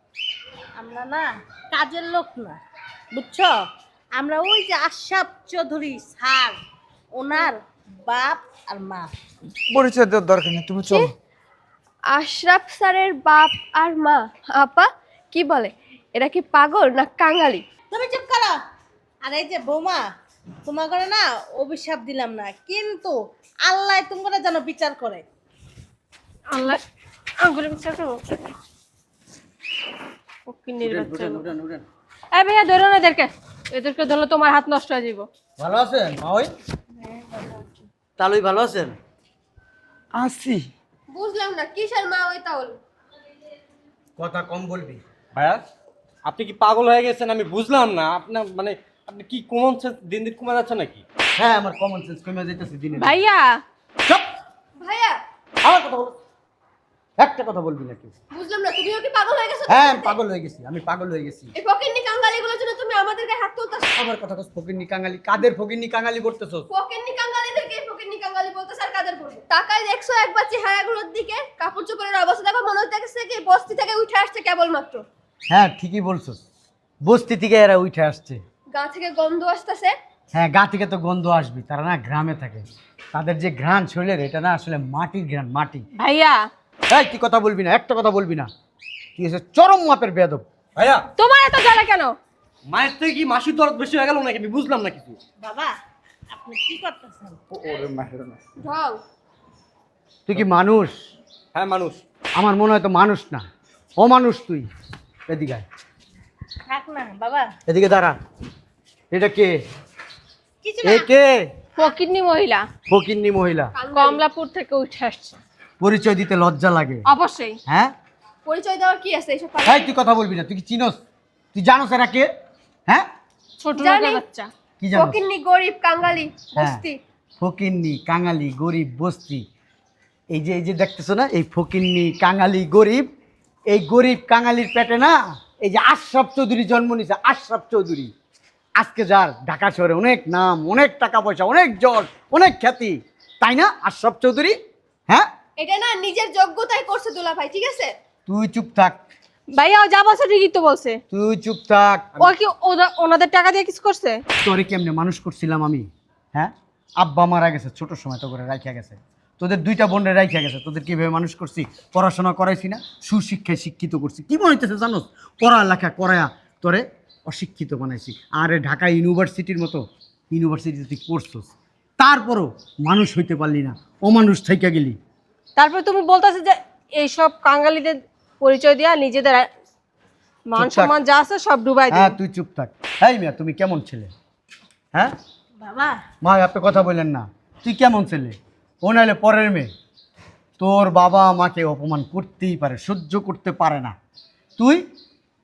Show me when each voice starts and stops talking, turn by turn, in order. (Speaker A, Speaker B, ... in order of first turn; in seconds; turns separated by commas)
Speaker A: 0.8-2.6, Speaker A: 3.1-3.6, Speaker A: 4.2-6.6, Speaker A: 7.1-9.1, Speaker B: 9.7-11.1, Speaker C: 12.1-17.6, Speaker A: 17.9-18.6, Speaker A: 19.2-20.0, Speaker A: 20.6-23.1, Speaker A: 23.7-25.2, Speaker D: 26.5-26.8, Speaker D: 27.4-28.2, Speaker D: 30.5-31.4, Speaker E: 30.8-31.8, Speaker D: 32.3-35.3, Speaker E: 35.6-36.5, Speaker E: 38.2-39.0, Speaker B: 40.1-40.6, Speaker C: 41.1-42.8, Speaker E: 44.2-45.0, Speaker F: 45.3-45.6, Speaker F: 46.2-51.0, Speaker E: 51.4-53.2, Speaker D: 53.0-53.6, Speaker C: 54.8-55.2, Speaker E: 55.6-56.2, Speaker E: 57.2-58.1, Speaker C: 58.3-60.2, Speaker E: 59.7-61.5, Speaker C: 61.6-63.9, Speaker E: 64.0-66.7, Speaker C: 66.7-75.0, Speaker E: 75.5-76.4, Speaker E: 77.0-78.4, Speaker C: 78.7-79.9, Speaker E: 80.3-85.8, Speaker D: 86.0-86.4, Speaker E: 86.9-88.5, Speaker E: 89.2-90.4, Speaker F: 90.8-91.0, Speaker D: 91.2-92.1, Speaker F: 92.7-95.2, Speaker A: 95.4-95.8, Speaker A: 96.3-97.4, Speaker B: 97.5-98.4, Speaker C: 98.6-99.0, Speaker E: 100.2-100.9, Speaker F: 101.5-102.0, Speaker E: 102.3-103.4, Speaker E: 104.0-104.7, Speaker E: 105.3-105.6, Speaker A: 106.7-107.5, Speaker E: 107.7-108.2, Speaker E: 109.1-109.6, Speaker A: 110.6-111.1, Speaker E: 110.8-111.5, Speaker D: 111.8-112.7, Speaker E: 112.9-113.7, Speaker C: 113.7-114.2, Speaker D: 113.9-115.4, Speaker E: 115.8-117.0, Speaker D: 117.1-117.6, Speaker E: 117.7-117.9, Speaker C: 118.5-119.9, Speaker E: 119.6-121.0, Speaker E: 121.5-122.3, Speaker D: 123.6-124.5, Speaker C: 123.8-124.2, Speaker E: 124.8-125.2, Speaker C: 124.9-127.0, Speaker E: 127.4-129.4, Speaker E: 130.3-133.1, Speaker E: 133.7-138.1, Speaker E: 138.8-144.6, Speaker C: 145.6-147.9, Speaker E: 148.3-149.0, Speaker D: 149.5-151.0, Speaker E: 151.1-152.3, Speaker D: 152.2-154.2, Speaker E: 154.4-175.0, Speaker D: 175.6-179.5, Speaker D: 180.5-182.2, Speaker E: 180.6-180.9, Speaker E: 181.9-184.1, Speaker A: 185.6-186.0, Speaker E: 186.2-189.7, Speaker E: 190.6-193.9, Speaker E: 194.6-194.8